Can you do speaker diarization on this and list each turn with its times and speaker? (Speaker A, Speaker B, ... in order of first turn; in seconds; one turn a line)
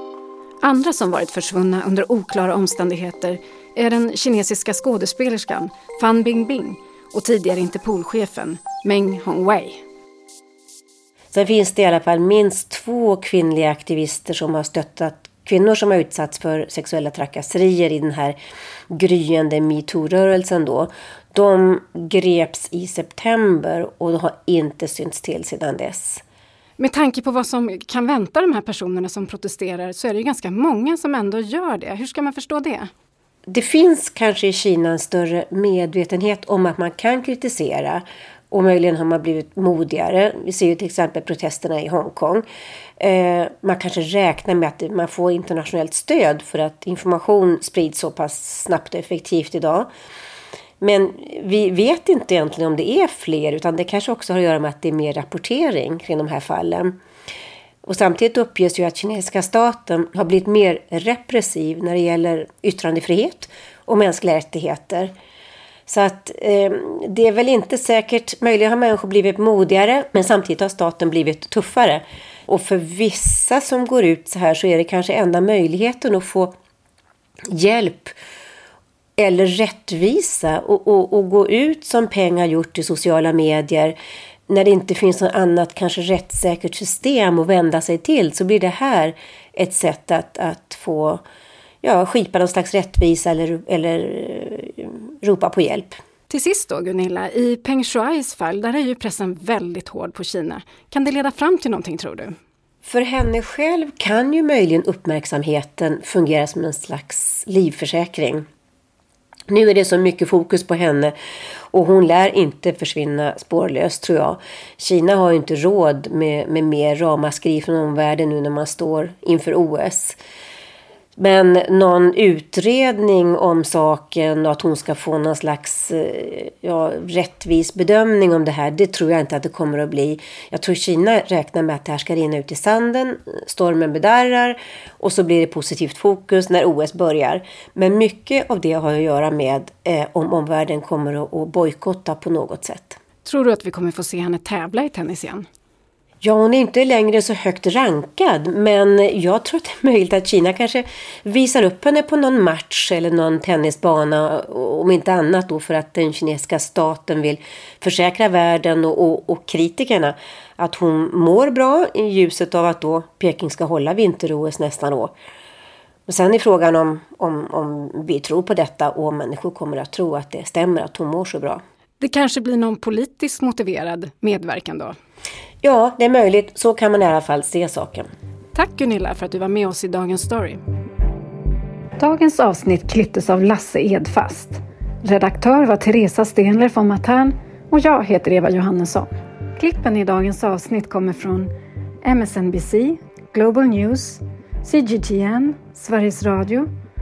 Speaker A: 0.6-9.8
Speaker B: 11.3-18.4
Speaker B: 18.9-26.2
Speaker A: 26.8-32.9
Speaker B: 33.5-42.5
Speaker B: 43.0-49.9
Speaker B: 50.8-57.0
Speaker B: 57.8-65.1
Speaker B: 65.9-76.5
Speaker B: 77.5-78.2
Speaker B: 79.2-84.0
Speaker B: 84.5-91.2
Speaker B: 91.8-96.0
Speaker A: 96.3-102.4
Speaker B: 102.8-108.5
Speaker B: 109.5-111.1
Speaker B: 111.7-120.2
Speaker B: 121.2-143.0
Speaker A: 143.2-145.5
Speaker B: 146.2-165.1
Speaker B: 166.1-171.6
Speaker A: 172.0-174.9
Speaker B: 175.6-178.1
Speaker A: 178.6-180.6
Speaker A: 182.0-191.5
Speaker A: 192.0-196.7